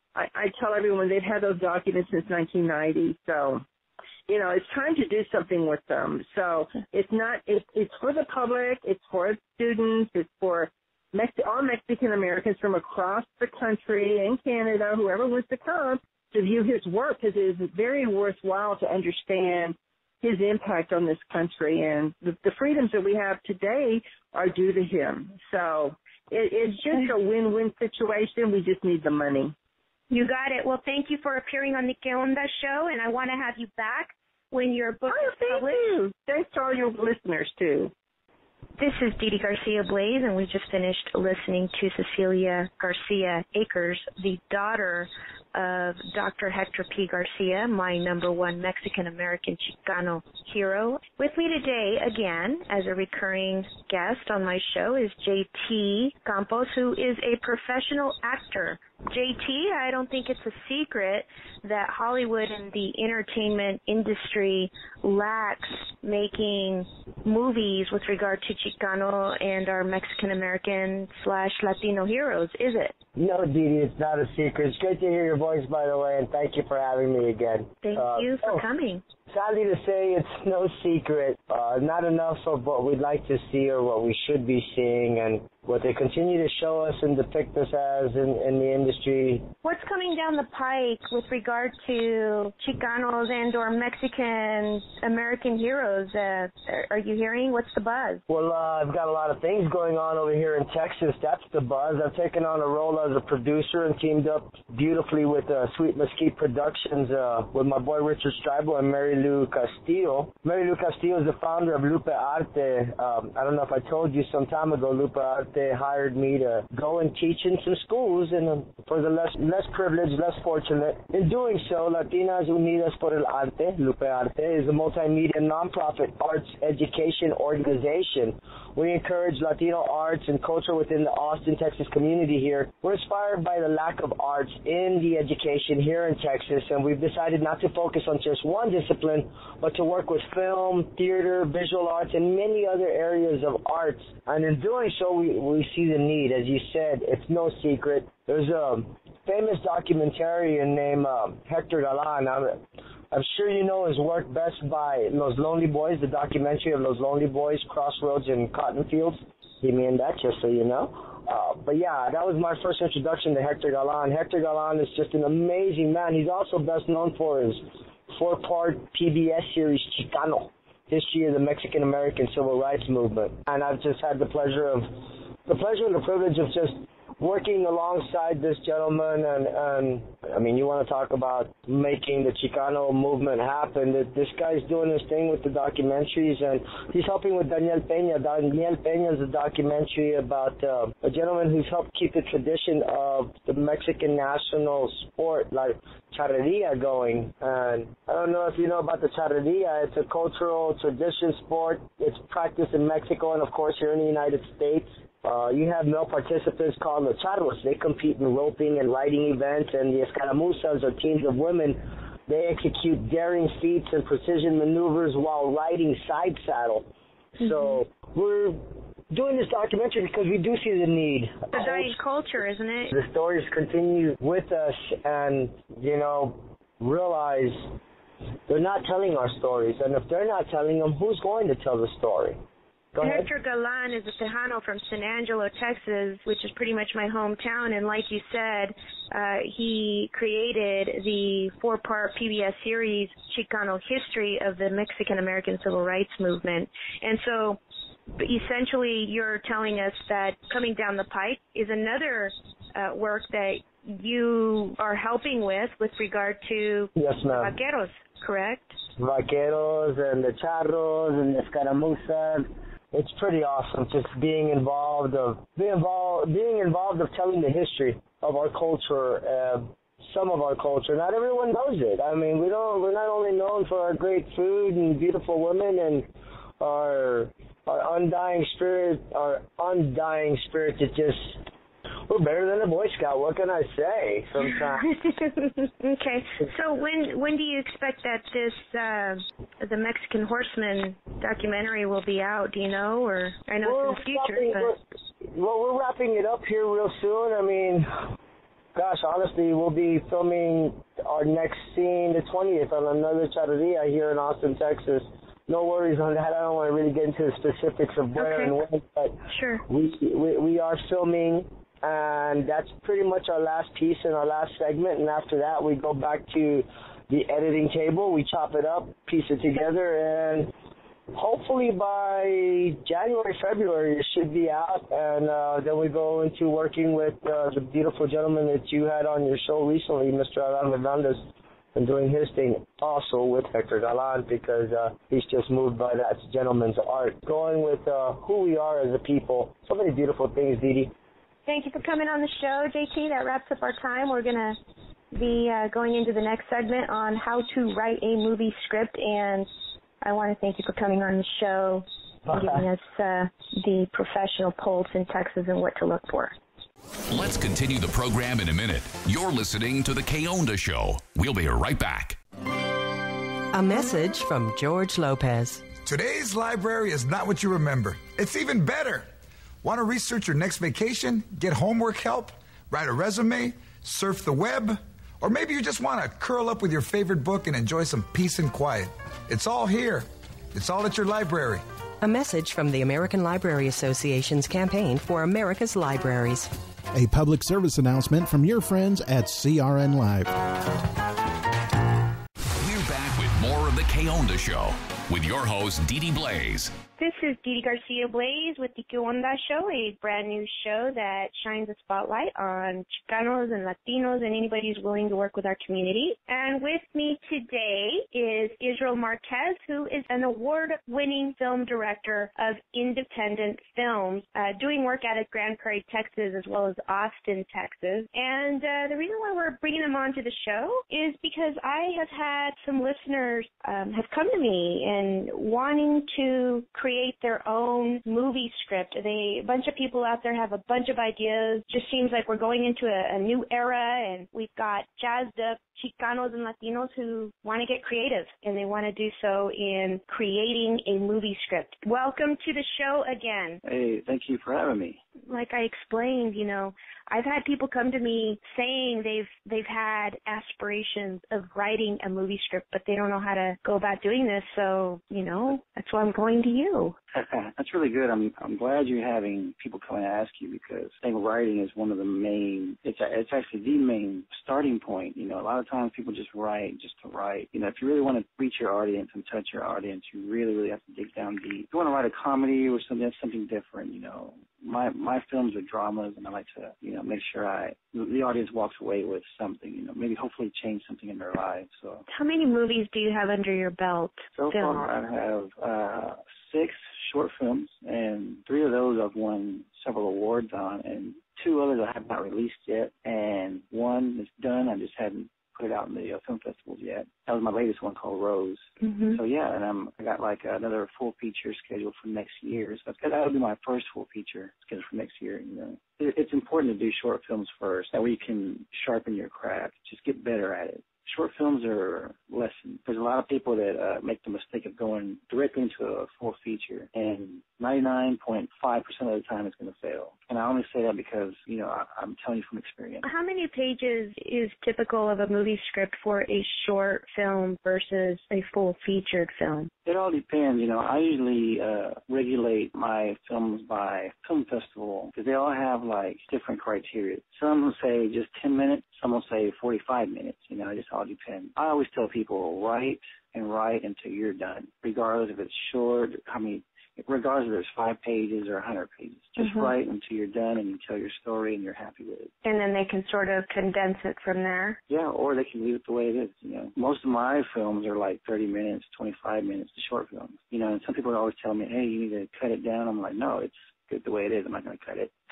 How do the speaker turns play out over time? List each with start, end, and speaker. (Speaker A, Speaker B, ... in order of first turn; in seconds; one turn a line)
Speaker A: 0.1-3.6
Speaker A: 4.3-29.5
Speaker B: 30.1-35.9
Speaker A: 35.1-37.9
Speaker B: 38.8-73.0
Speaker C: 73.2-78.6
Speaker B: 77.8-79.0
Speaker C: 79.3-89.5
Speaker B: 89.6-98.2
Speaker C: 98.3-221.9
Speaker B: 221.5-222.9
Speaker C: 222.9-227.7
Speaker C: 228.5-232.4
Speaker C: 232.9-233.3
Speaker B: 233.0-247.6
Speaker B: 248.1-258.8
Speaker C: 257.0-257.5
Speaker C: 259.0-276.1
Speaker C: 276.6-281.4
Speaker C: 282.1-284.9
Speaker B: 284.8-294.7
Speaker C: 293.6-297.9
Speaker C: 298.8-320.5
Speaker B: 308.2-308.6
Speaker B: 309.3-309.6
Speaker C: 321.1-331.2
Speaker C: 331.8-340.9
Speaker B: 341.5-344.6
Speaker B: 345.1-349.5
Speaker B: 350.0-356.4
Speaker C: 352.3-352.7
Speaker D: 357.1-362.2
Speaker E: 363.5-365.6
Speaker F: 365.8-369.1
Speaker F: 369.6-381.6
Speaker E: 382.0-386.5
Speaker G: 386.9-390.3
Speaker D: 392.6-396.8
Speaker B: 397.0-443.6
Speaker H: 443.6-445.0
Speaker B: 445.3-456.9
Speaker H: 457.1-482.0
Speaker B: 482.1-484.9
Speaker H: 484.3-523.0
Speaker B: 498.8-499.2
Speaker B: 523.0-529.7
Speaker H: 529.9-552.3
Speaker B: 549.4-549.7
Speaker B: 552.5-554.8
Speaker H: 554.9-565.1